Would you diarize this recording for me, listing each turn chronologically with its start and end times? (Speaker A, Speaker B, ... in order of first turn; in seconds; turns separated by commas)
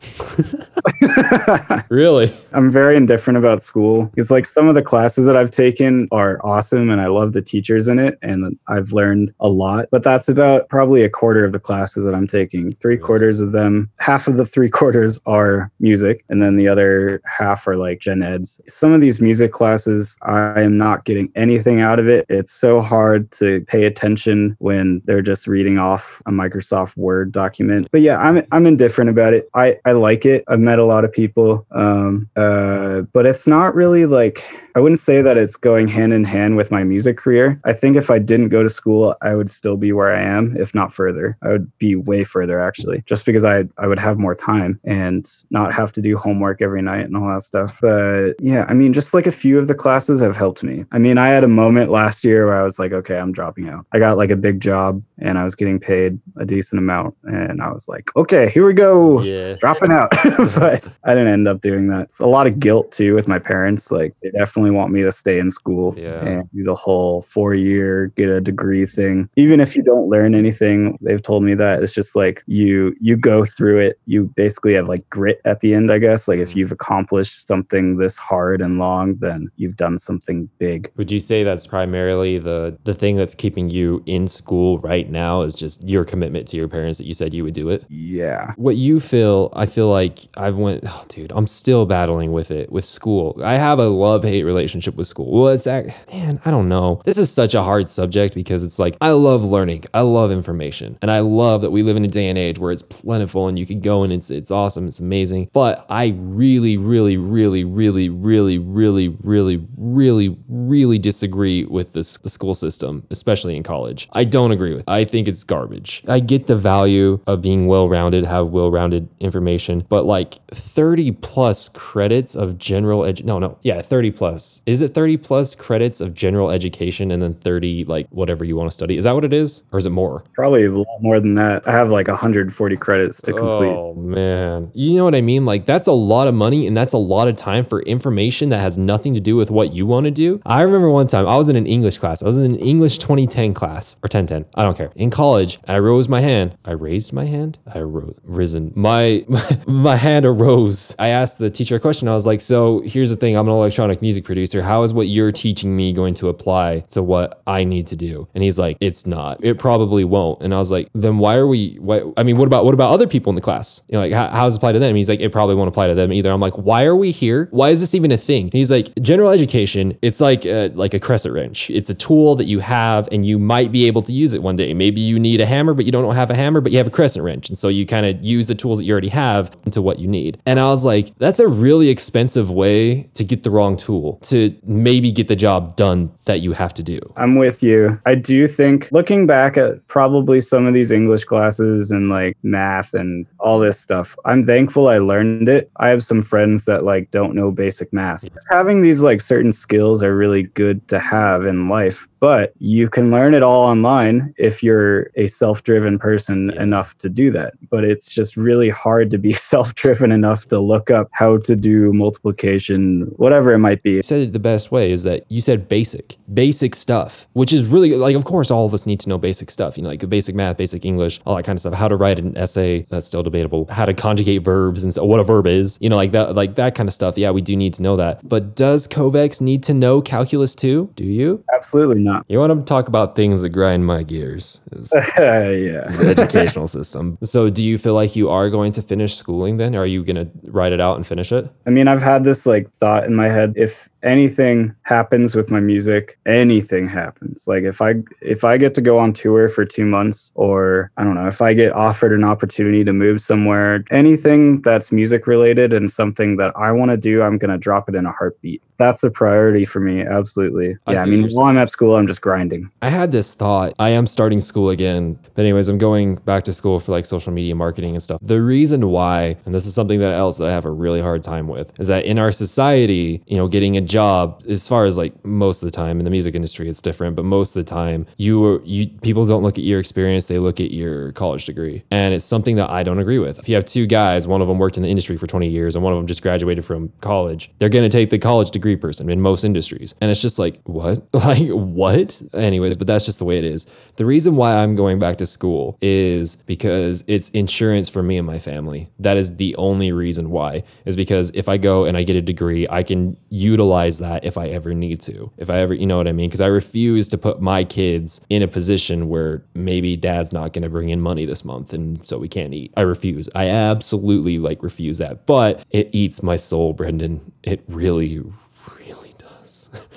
Speaker A: 0.2-0.6, Speaker B: 0.8-1.8, Speaker A: 1.9-2.4, Speaker B: 2.5-80.9, Speaker A: 59.1-60.6, Speaker A: 65.9-66.4, Speaker A: 76.3-76.7, Speaker A: 81.0-87.8, Speaker B: 87.9-88.5, Speaker A: 88.6-130.2, Speaker B: 130.3-133.8, Speaker A: 133.2-187.1, Speaker B: 187.2-214.0, Speaker A: 206.5-206.8, Speaker A: 214.0-231.4, Speaker B: 231.5-232.2, Speaker A: 232.3-235.1, Speaker B: 234.9-236.5, Speaker A: 235.9-241.5, Speaker B: 241.7-262.7, Speaker A: 260.9-261.5, Speaker A: 262.8-319.9